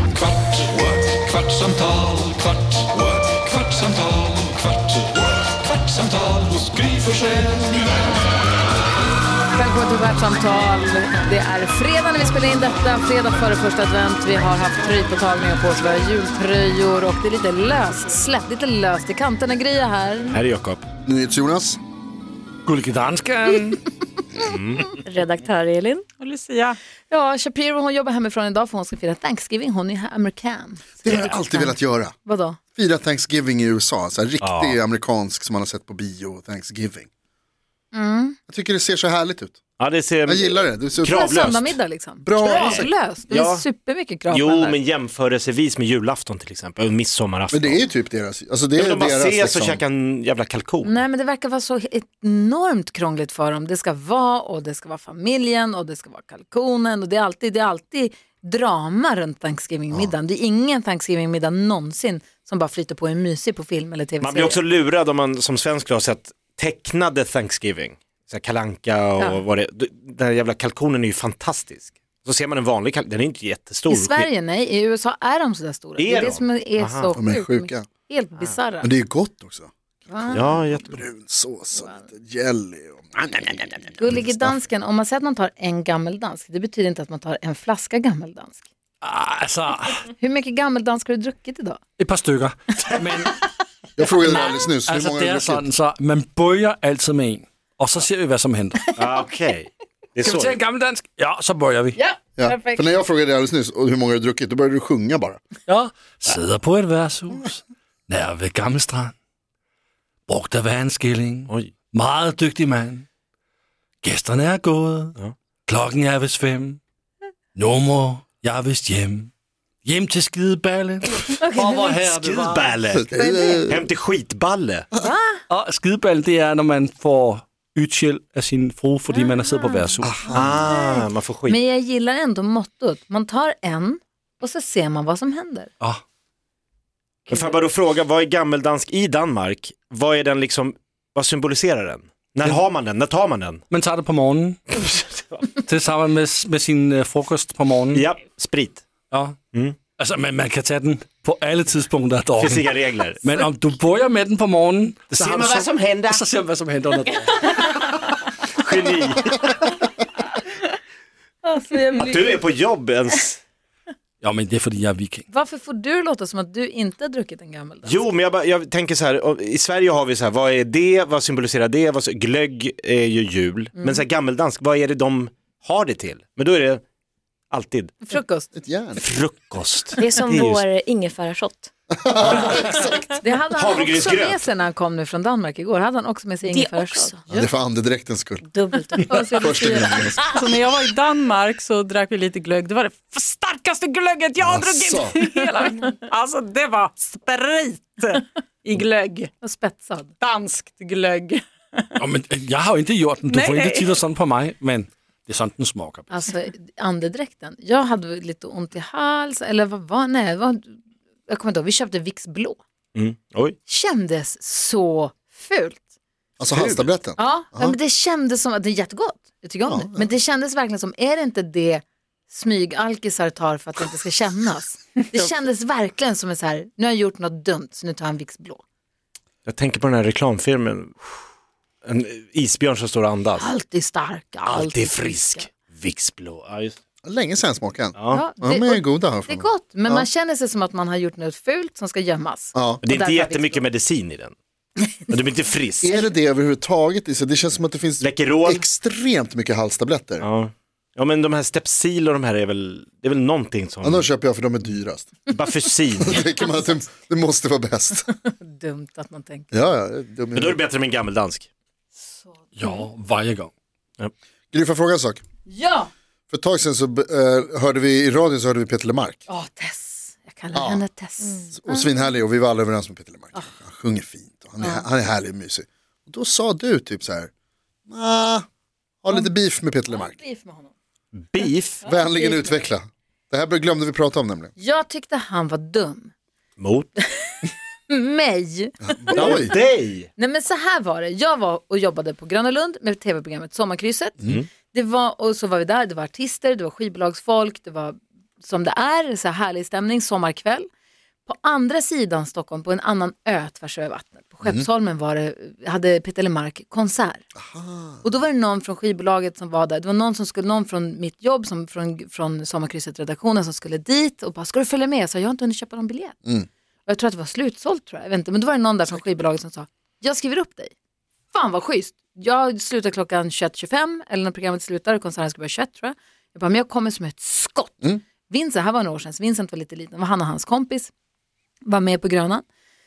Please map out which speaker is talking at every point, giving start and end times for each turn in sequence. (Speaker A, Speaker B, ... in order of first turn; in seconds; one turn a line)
Speaker A: 0.6-3.9
Speaker A: 6.6-7.2
Speaker B: 9.5-20.4
Speaker C: 20.3-20.9
Speaker D: 21.1-21.8
Speaker E: 22.7-23.8
Speaker C: 24.4-25.0
Speaker F: 25.0-26.1
Speaker G: 26.2-26.8
Speaker B: 27.1-32.6
Speaker D: 31.0-32.1
Speaker C: 31.1-31.3
Speaker D: 32.8-37.1
Speaker C: 34.4-34.8
Speaker B: 37.9-38.4
Speaker D: 38.5-39.6
Speaker C: 39.8-41.8
Speaker D: 40.3-41.3
Speaker B: 41.0-44.8
Speaker D: 42.2-42.9
Speaker C: 42.5-43.6
Speaker C: 44.3-47.9
Speaker D: 47.5-49.8
Speaker C: 48.8-51.0
Speaker B: 50.8-64.6
Speaker C: 64.2-74.3
Speaker B: 73.9-78.9
Speaker C: 76.0-77.2
Speaker D: 77.2-77.9
Speaker D: 78.8-84.6
Speaker B: 80.1-80.6
Speaker C: 80.3-81.0
Speaker B: 81.8-82.0
Speaker B: 84.0-88.6
Speaker E: 89.0-90.0
Speaker B: 90.2-91.8
Speaker E: 92.0-93.3
Speaker D: 94.0-95.7
Speaker E: 94.2-99.0
Speaker C: 99.0-100.6
Speaker E: 100.2-102.0
Speaker B: 102.0-102.8
Speaker D: 102.4-105.4
Speaker E: 105.7-109.1
Speaker E: 110.3-113.0
Speaker E: 114.0-115.2
Speaker E: 115.7-116.8
Speaker E: 117.6-119.3
Speaker E: 119.8-122.8
Speaker B: 121.4-122.0
Speaker C: 122.1-123.1
Speaker D: 122.9-123.8
Speaker B: 123.1-123.7
Speaker C: 123.7-124.9
Speaker B: 125.0-125.4
Speaker E: 125.5-130.4
Speaker B: 129.2-129.8
Speaker D: 130.0-130.6
Speaker C: 130.3-131.6
Speaker B: 130.6-135.7
Speaker B: 137.3-137.6
Speaker C: 137.3-143.6
Speaker E: 143.7-144.6
Speaker C: 144.7-145.5
Speaker E: 145.6-148.1
Speaker C: 147.9-148.8
Speaker E: 149.1-149.4
Speaker E: 150.0-152.7
Speaker C: 152.4-153.3
Speaker E: 153.2-157.8
Speaker C: 155.1-156.2
Speaker C: 158.6-159.5
Speaker B: 161.5-162.3
Speaker C: 162.1-163.4
Speaker E: 164.2-165.2
Speaker B: 165.3-168.0
Speaker C: 167.8-176.8
Speaker B: 173.8-174.1
Speaker C: 177.5-178.0
Speaker B: 178.1-178.5
Speaker D: 178.6-179.0
Speaker C: 179.0-180.6
Speaker F: 180.0-181.7
Speaker D: 181.9-183.1
Speaker C: 182.2-182.6
Speaker B: 183.2-187.5
Speaker C: 183.6-184.5
Speaker F: 186.5-187.2
Speaker D: 187.3-188.4
Speaker F: 188.5-189.2
Speaker G: 189.1-199.3
Speaker D: 189.2-190.3
Speaker D: 194.4-195.2
Speaker B: 199.4-200.1
Speaker G: 200.2-201.8
Speaker E: 202.0-206.0
Speaker G: 203.3-204.0
Speaker B: 206.1-212.6
Speaker C: 212.9-213.6
Speaker B: 213.7-215.8
Speaker D: 216.4-217.8
Speaker C: 216.4-216.9
Speaker B: 217.2-228.6
Speaker D: 219.7-220.1
Speaker C: 229.5-231.1
Speaker C: 231.8-233.5
Speaker B: 233.4-235.5
Speaker C: 234.5-236.8
Speaker D: 237.0-240.1
Speaker C: 238.0-238.2
Speaker B: 238.1-243.7
Speaker D: 242.6-242.8
Speaker C: 242.8-244.4
Speaker C: 245.1-246.0
Speaker D: 245.8-250.3
Speaker C: 248.0-248.7
Speaker C: 250.2-254.1
Speaker D: 253.8-255.3
Speaker C: 255.3-256.2
Speaker D: 256.0-258.1
Speaker B: 258.3-259.5
Speaker D: 259.5-260.6
Speaker C: 260.3-261.5
Speaker B: 262.2-262.8
Speaker E: 262.6-263.5
Speaker D: 264.5-265.2
Speaker B: 265.5-265.9
Speaker D: 266.3-269.2
Speaker B: 269.3-271.9
Speaker D: 270.5-270.8
Speaker D: 271.6-277.3
Speaker B: 274.6-274.9
Speaker D: 277.9-278.4
Speaker D: 279.0-280.2
Speaker B: 279.9-280.7
Speaker C: 281.2-281.9
Speaker B: 281.9-282.6
Speaker D: 281.9-284.5
Speaker B: 284.6-286.1
Speaker C: 286.6-286.9
Speaker B: 287.9-289.6
Speaker D: 288.9-289.5
Speaker C: 289.1-290.1
Speaker B: 290.2-300.7
Speaker B: 301.3-307.3
Speaker D: 307.4-308.1
Speaker B: 308.0-316.2
Speaker B: 316.9-320.7
Speaker B: 321.3-330.9
Speaker B: 331.6-332.4